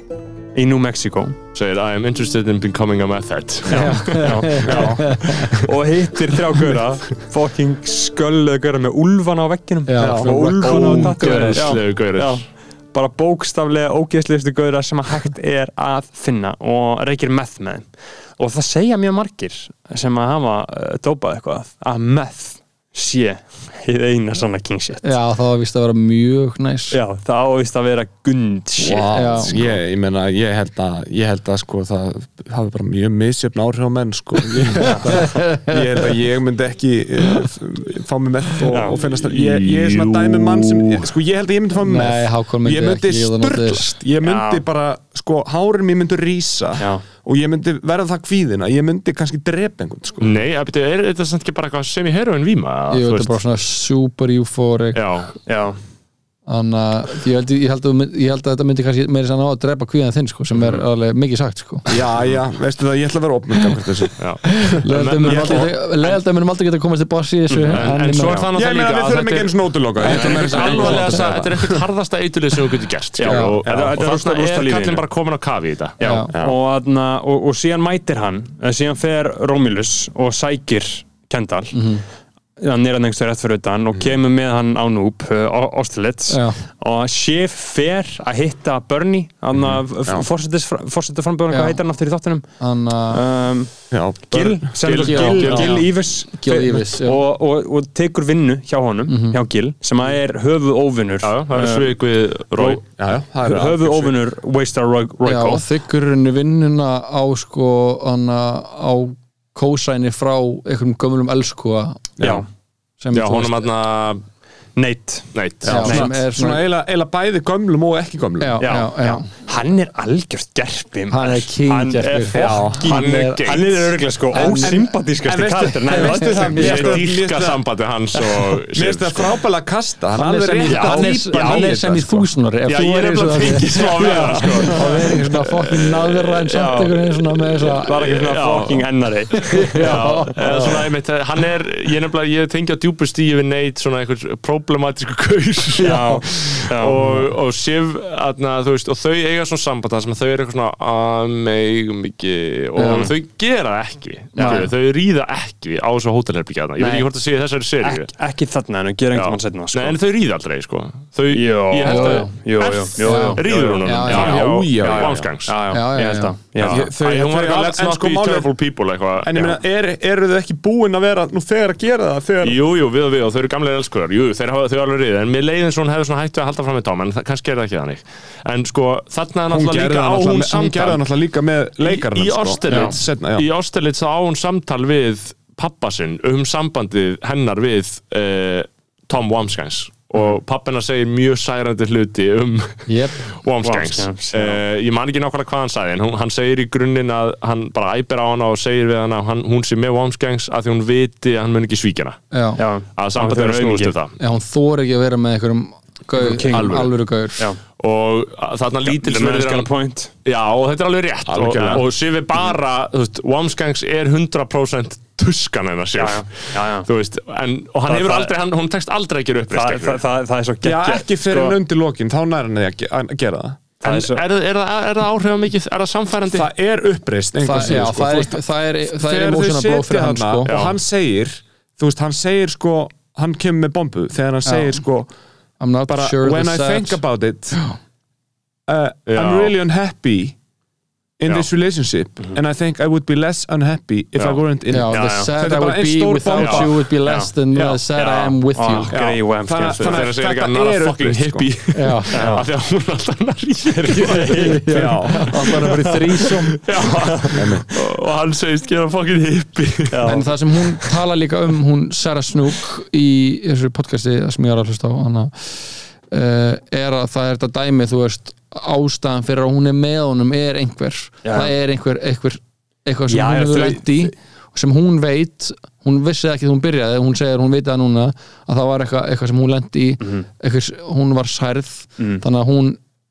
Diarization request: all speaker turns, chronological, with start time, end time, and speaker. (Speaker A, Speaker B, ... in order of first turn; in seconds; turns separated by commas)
Speaker A: 0.5-1.4, Speaker B: 1.6-4.7, Speaker A: 3.7-25.1, Speaker C: 3.7-5.5, Speaker D: 4.6-5.0, Speaker C: 9.9-11.8, Speaker D: 10.0-10.6, Speaker B: 10.6-12.4, Speaker C: 25.0-27.0, Speaker A: 26.9-29.8, Speaker D: 28.8-50.4, Speaker C: 29.1-29.6, Speaker A: 34.8-35.3, Speaker C: 34.8-36.0, Speaker A: 38.7-39.0, Speaker B: 39.1-41.1, Speaker C: 41.8-44.0, Speaker A: 44.2-44.6, Speaker A: 46.8-47.0, Speaker B: 50.2-53.4, Speaker C: 52.9-55.0, Speaker B: 54.9-55.4, Speaker A: 55.5-55.8, Speaker C: 56.5-62.0, Speaker D: 61.9-64.1, Speaker B: 64.2-65.7, Speaker C: 64.5-68.5, Speaker D: 65.3-65.7, Speaker A: 67.5-67.9, Speaker B: 67.7-76.0, Speaker D: 68.5-71.8, Speaker C: 70.0-71.0, Speaker A: 70.0-71.3, Speaker A: 73.2-75.0, Speaker C: 73.3-73.6, Speaker D: 73.7-74.0, Speaker A: 76.0-81.9, Speaker C: 76.0-76.3, Speaker D: 76.3-76.6, Speaker C: 81.7-82.0, Speaker A: 82.6-92.5, Speaker C: 86.3-86.6, Speaker D: 89.5-90.3, Speaker C: 91.5-91.8, Speaker C: 92.6-93.2, Speaker A: 93.1-102.0, Speaker D: 93.9-95.8, Speaker B: 94.8-95.8, Speaker C: 95.0-97.2, Speaker C: 99.1-99.4, Speaker B: 101.2-102.8, Speaker A: 102.6-102.8, Speaker D: 103.0-104.2, Speaker A: 103.4-105.6, Speaker C: 105.2-112.2, Speaker D: 112.2-112.5, Speaker A: 112.2-112.5, Speaker C: 113.0-113.6, Speaker B: 113.1-114.2, Speaker A: 114.8-116.1, Speaker B: 115.3-115.9, Speaker D: 115.6-118.8, Speaker C: 115.7-116.7, Speaker C: 118.4-119.3, Speaker A: 118.6-127.0, Speaker C: 121.1-123.4, Speaker D: 122.3-122.9, Speaker B: 122.8-124.0, Speaker C: 124.3-124.9, Speaker D: 124.3-127.6, Speaker C: 125.9-126.9, Speaker B: 126.5-129.4, Speaker D: 128.7-132.3, Speaker C: 130.2-138.0, Speaker A: 130.7-131.7, Speaker B: 132.7-158.1, Speaker A: 134.0-134.4, Speaker D: 134.7-135.3, Speaker A: 136.5-137.0, Speaker A: 137.8-140.2, Speaker C: 139.4-140.8, Speaker C: 145.8-146.2, Speaker A: 145.8-147.2, Speaker C: 152.8-153.1, Speaker A: 154.4-154.7, Speaker C: 154.4-154.7, Speaker A: 156.8-157.1, Speaker A: 157.8-160.0, Speaker B: 159.1-165.6, Speaker A: 161.3-166.8, Speaker C: 161.8-162.3, Speaker C: 163.0-164.4, Speaker D: 164.1-165.3, Speaker C: 165.7-166.4, Speaker B: 166.6-169.6, Speaker D: 166.6-168.5, Speaker D: 169.2-172.6, Speaker B: 172.4-181.0, Speaker D: 179.5-183.5, Speaker B: 181.8-202.2, Speaker C: 192.9-193.2, Speaker A: 193.6-194.6, Speaker C: 202.3-202.6, Speaker A: 202.6-203.9, Speaker B: 203.0-204.2, Speaker C: 204.2-207.4, Speaker A: 206.2-206.9, Speaker B: 206.3-207.0, Speaker B: 207.8-209.7, Speaker A: 208.9-210.1, Speaker B: 210.2-220.0, Speaker D: 211.3-211.9, Speaker A: 216.0-216.9, Speaker A: 217.9-218.3, Speaker A: 219.5-221.6, Speaker D: 220.6-223.6, Speaker A: 223.8-224.2, Speaker B: 223.8-226.5, Speaker D: 226.3-235.1, Speaker C: 227.4-230.5, Speaker B: 230.5-230.8, Speaker C: 234.4-234.8, Speaker C: 235.6-237.0, Speaker D: 235.9-237.6, Speaker D: 238.7-240.4, Speaker B: 239.1-239.5, Speaker D: 241.2-246.9, Speaker B: 244.2-244.4, Speaker C: 244.7-248.9, Speaker A: 244.9-245.3, Speaker B: 246.4-246.7, Speaker A: 247.1-250.1, Speaker D: 248.9-251.5, Speaker B: 249.6-254.7, Speaker C: 251.7-252.2, Speaker A: 252.1-252.5, Speaker D: 252.1-252.5, Speaker A: 253.8-254.9, Speaker C: 254.2-256.6, Speaker D: 254.7-255.3, Speaker B: 255.5-255.9, Speaker A: 255.6-256.2, Speaker B: 256.6-260.3, Speaker A: 256.8-257.6, Speaker D: 257.3-257.7, Speaker A: 259.9-260.3, Speaker C: 260.1-282.8, Speaker A: 271.2-271.5, Speaker A: 273.1-274.1, Speaker A: 282.0-282.2